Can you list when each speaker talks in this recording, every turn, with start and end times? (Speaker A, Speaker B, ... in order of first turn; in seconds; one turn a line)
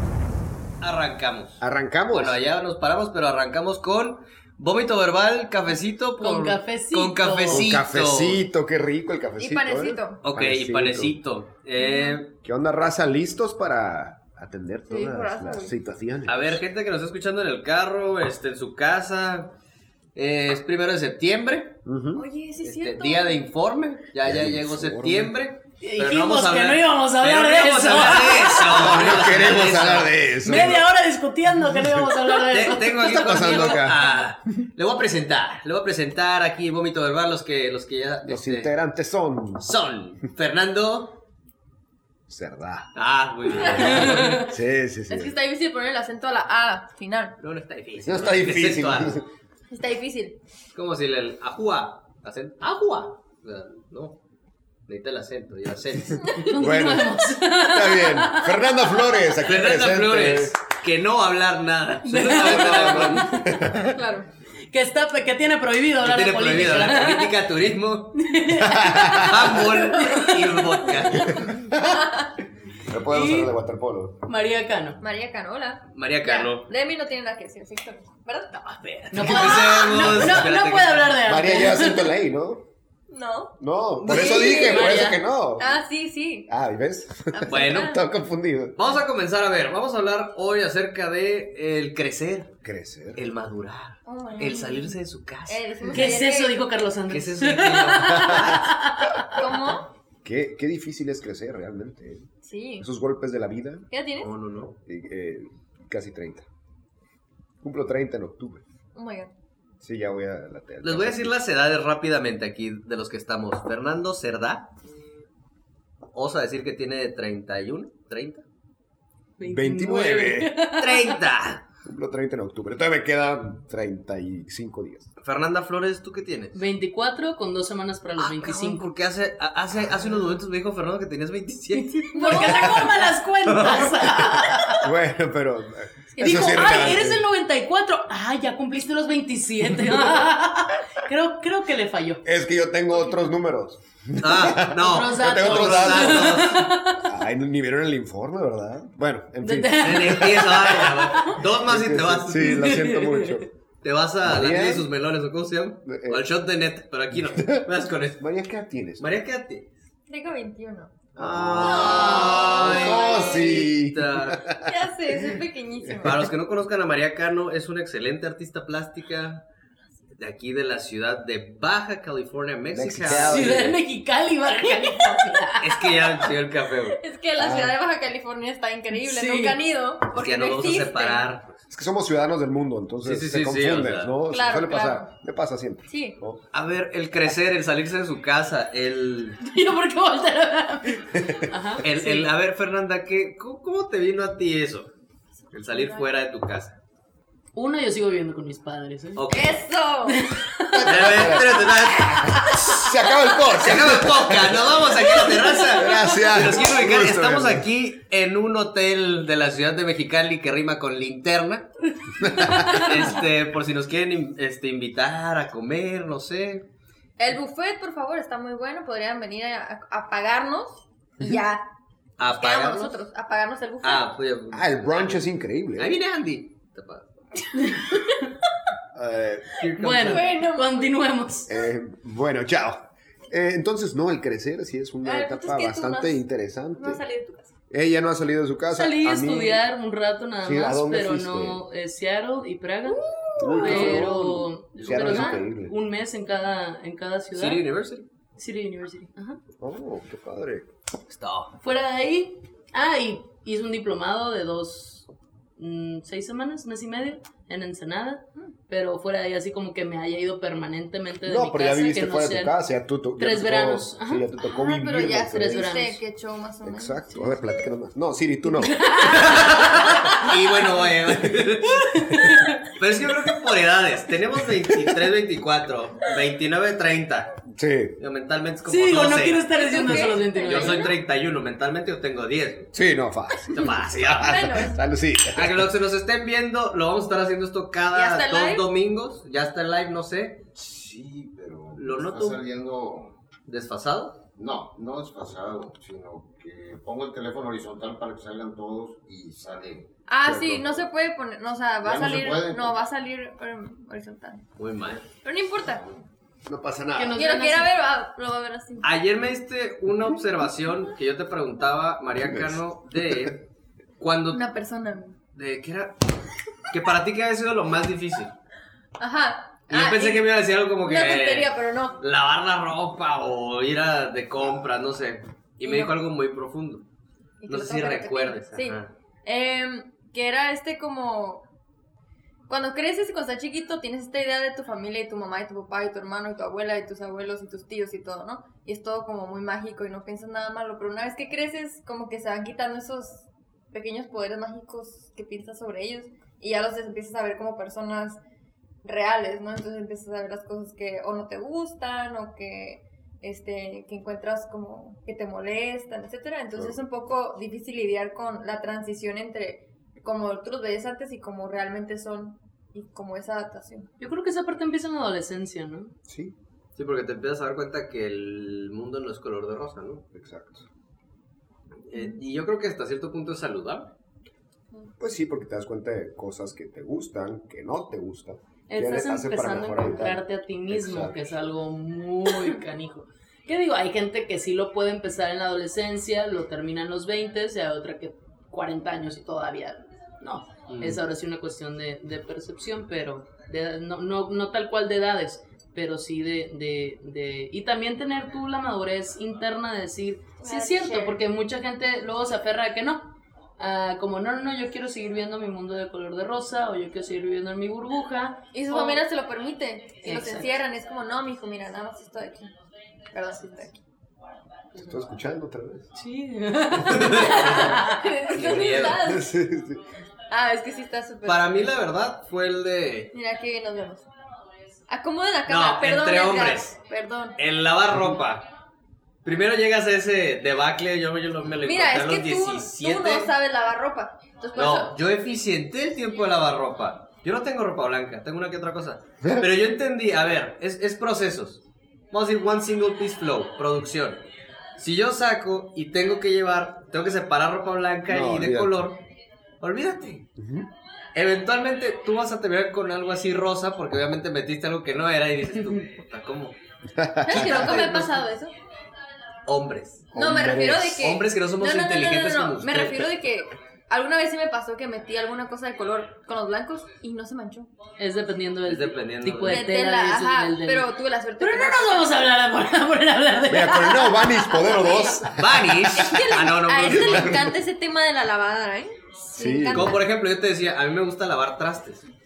Speaker A: 0.8-8.4
Speaker B: 1.6-2.4
Speaker C: 6.2-7.6
Speaker B: 7.5-11.2
Speaker D: 9.4-10.2
Speaker A: 10.2-12.3
Speaker D: 11.8-12.2
Speaker B: 12.4-16.6
Speaker D: 14.9-15.7
Speaker A: 16.3-19.5
Speaker A: 20.1-21.8
Speaker B: 21.8-22.2
Speaker D: 22.1-23.4
Speaker A: 22.6-30.1
Speaker B: 24.2-25.3
Speaker C: 25.8-29.0
Speaker B: 28.6-30.9
Speaker C: 30.4-33.9
Speaker B: 31.7-32.1
Speaker A: 32.5-38.7
Speaker B: 33.0-34.1
Speaker B: 38.2-39.6
Speaker A: 39.6-41.2
Speaker B: 42.3-42.9
Speaker A: 43.0-44.5
Speaker B: 43.5-45.3
Speaker D: 43.6-43.9
Speaker C: 44.0-44.5
Speaker D: 45.1-47.4
Speaker A: 47.4-49.2
Speaker B: 48.0-49.3
Speaker D: 49.7-50.4
Speaker A: 50.7-54.2
Speaker A: 54.9-56.5
Speaker D: 56.2-56.5
Speaker C: 56.5-58.7
Speaker B: 56.6-60.5
Speaker A: 59.4-63.3
Speaker C: 62.0-63.4
Speaker B: 62.3-63.9
Speaker D: 63.9-64.3
Speaker C: 64.7-67.3
Speaker A: 66.0-68.3
Speaker C: 68.1-71.4
Speaker B: 68.6-69.4
Speaker A: 69.1-71.5
Speaker B: 71.2-71.7
Speaker D: 71.8-72.3
Speaker B: 72.9-74.2
Speaker C: 73.1-73.5
Speaker C: 74.2-75.0
Speaker D: 75.0-78.7
Speaker A: 75.9-76.7
Speaker A: 78.6-81.4
Speaker C: 79.1-82.1
Speaker B: 79.4-80.2
Speaker B: 81.2-82.6
Speaker D: 83.1-83.5
Speaker B: 83.6-85.8
Speaker C: 84.0-85.2
Speaker D: 84.0-85.0
Speaker D: 85.5-86.5
Speaker B: 86.5-88.8
Speaker D: 87.3-88.0
Speaker A: 87.5-88.0
Speaker A: 88.8-92.5
Speaker B: 92.6-93.2
Speaker A: 93.2-96.2
Speaker D: 94.0-94.9
Speaker D: 95.5-96.6
Speaker C: 95.9-99.3
Speaker A: 97.1-98.8
Speaker B: 98.1-98.6
Speaker D: 99.3-99.8
Speaker A: 99.4-99.8
Speaker B: 100.2-103.8
Speaker D: 102.4-102.9
Speaker D: 103.9-104.3
Speaker A: 104.2-104.7
Speaker B: 104.8-106.5
Speaker B: 107.6-108.6
Speaker D: 108.9-109.3
Speaker B: 109.8-111.4
Speaker A: 110.8-114.7
Speaker A: 116.1-118.4
Speaker C: 119.4-121.2
Speaker B: 119.4-120.6
Speaker A: 120.7-121.6
Speaker B: 121.8-125.1
Speaker A: 125.2-126.6
Speaker C: 126.5-128.8
Speaker A: 128.2-134.5
Speaker C: 132.0-134.9
Speaker D: 132.1-132.7
Speaker B: 134.8-137.2
Speaker C: 136.2-142.2
Speaker D: 136.2-136.8
Speaker B: 142.2-146.5
Speaker A: 144.2-146.7
Speaker C: 144.8-147.1
Speaker B: 147.0-153.5
Speaker C: 149.4-151.4
Speaker A: 149.8-152.7
Speaker C: 152.4-153.4
Speaker A: 153.8-158.2
Speaker B: 154.2-154.9
Speaker B: 155.8-156.2
Speaker B: 157.1-159.1
Speaker A: 159.0-159.7
Speaker D: 160.1-160.9
Speaker A: 161.1-164.4
Speaker B: 161.2-166.0
Speaker D: 161.6-163.7
Speaker D: 164.6-166.3
Speaker A: 166.0-169.4
Speaker A: 170.2-173.7
Speaker B: 172.7-173.8
Speaker C: 173.1-176.0
Speaker A: 175.6-177.0
Speaker D: 176.9-181.2
Speaker B: 177.3-177.8
Speaker C: 178.9-179.6
Speaker A: 180.1-181.6
Speaker B: 181.7-186.4
Speaker A: 183.0-184.1
Speaker D: 184.3-185.1
Speaker D: 185.9-186.2
Speaker A: 186.5-189.4
Speaker C: 189.4-192.3
Speaker B: 191.1-191.4
Speaker A: 191.8-194.9
Speaker A: 195.5-196.8
Speaker D: 195.7-196.1
Speaker C: 197.5-199.3
Speaker A: 199.2-199.6
Speaker D: 199.3-200.2
Speaker C: 200.1-201.2
Speaker B: 200.7-207.7
Speaker A: 200.8-202.8
Speaker C: 202.3-202.8
Speaker A: 203.5-211.7
Speaker C: 212.1-213.0
Speaker B: 212.2-212.9
Speaker A: 212.5-216.7
Speaker D: 217.2-221.6
Speaker A: 222.2-223.0
Speaker D: 222.2-224.1
Speaker A: 223.8-225.2
Speaker B: 224.5-226.0
Speaker A: 225.8-227.4
Speaker C: 227.6-227.8
Speaker B: 228.9-229.5
Speaker A: 229.6-230.4
Speaker C: 229.8-231.5
Speaker D: 229.9-230.9
Speaker B: 231.5-237.0
Speaker D: 235.0-236.2
Speaker D: 236.7-237.5
Speaker B: 237.7-239.6
Speaker C: 238.7-243.0
Speaker B: 240.4-241.6
Speaker D: 242.8-243.9
Speaker B: 243.4-245.7
Speaker C: 243.6-247.6
Speaker D: 245.1-245.4
Speaker A: 247.3-248.1
Speaker C: 248.4-249.4
Speaker B: 249.6-250.7
Speaker A: 251.1-251.5
Speaker C: 251.6-262.6
Speaker B: 261.2-265.8
Speaker C: 263.1-264.2
Speaker D: 264.4-267.5
Speaker C: 265.3-266.0
Speaker B: 266.6-269.0
Speaker C: 268.5-270.1
Speaker A: 269.1-272.2
Speaker D: 269.9-270.1
Speaker C: 271.9-272.7
Speaker A: 272.7-277.3
Speaker B: 274.6-275.0
Speaker B: 277.5-277.9
Speaker A: 278.0-282.7
Speaker C: 278.6-280.8
Speaker D: 279.5-280.9
Speaker B: 282.7-285.7
Speaker A: 283.5-284.7
Speaker D: 284.2-284.8
Speaker A: 285.3-290.4
Speaker D: 287.9-288.7
Speaker E: 290.5-293.1
Speaker A: 291.7-292.4
Speaker A: 293.5-294.2
Speaker E: 294.3-299.9
Speaker D: 300.1-304.5
Speaker B: 300.2-300.8
Speaker E: 301.8-302.8
Speaker A: 304.6-305.0
Speaker D: 305.2-305.8
Speaker B: 306.4-307.2
Speaker C: 306.9-307.7
Speaker D: 307.1-308.9
Speaker A: 308.8-313.4
Speaker B: 312.2-313.3
Speaker A: 314.0-314.4
Speaker D: 314.3-315.2
Speaker A: 315.3-316.0
Speaker A: 316.7-318.4
Speaker D: 319.0-320.3
Speaker A: 319.7-326.8
Speaker D: 320.8-322.0
Speaker D: 325.6-325.9
Speaker D: 327.4-331.5
Speaker A: 327.5-328.9
Speaker D: 332.5-348.2
Speaker D: 348.8-363.9
Speaker C: 364.0-365.9
Speaker B: 366.1-366.3
Speaker A: 366.8-370.0
Speaker B: 370.1-370.6
Speaker A: 371.9-373.9
Speaker D: 371.9-372.2
Speaker B: 375.0-381.1
Speaker C: 378.7-409.0
Speaker A: 390.7-391.0
Speaker D: 400.4-401.2
Speaker D: 408.5-412.5
Speaker C: 410.0-410.5
Speaker D: 413.1-413.8
Speaker B: 414.7-415.9
Speaker C: 415.9-418.1
Speaker A: 416.9-417.8
Speaker D: 417.1-419.3
Speaker A: 418.3-419.0
Speaker B: 419.0-419.9
Speaker D: 420.3-421.5
Speaker A: 421.2-423.1
Speaker D: 423.1-424.1
Speaker D: 424.9-427.4
Speaker A: 425.5-426.8
Speaker A: 427.4-428.5
Speaker A: 429.2-433.3
Speaker D: 431.6-435.0
Speaker A: 434.5-444.2
Speaker B: 439.2-439.5
Speaker A: 444.8-449.0
Speaker B: 448.1-448.9
Speaker A: 449.6-450.2
Speaker B: 450.4-450.7
Speaker A: 451.1-456.6
Speaker B: 456.9-457.8
Speaker D: 457.2-458.5
Speaker A: 457.3-458.2
Speaker A: 459.4-463.1
Speaker B: 460.1-461.0
Speaker D: 460.1-467.7
Speaker C: 468.0-474.2
Speaker A: 468.6-469.7
Speaker D: 469.4-472.1
Speaker B: 473.5-476.3
Speaker D: 473.9-475.3
Speaker A: 475.3-477.6
Speaker D: 475.9-480.0
Speaker B: 476.8-477.4
Speaker B: 479.3-480.0
Speaker A: 479.7-482.1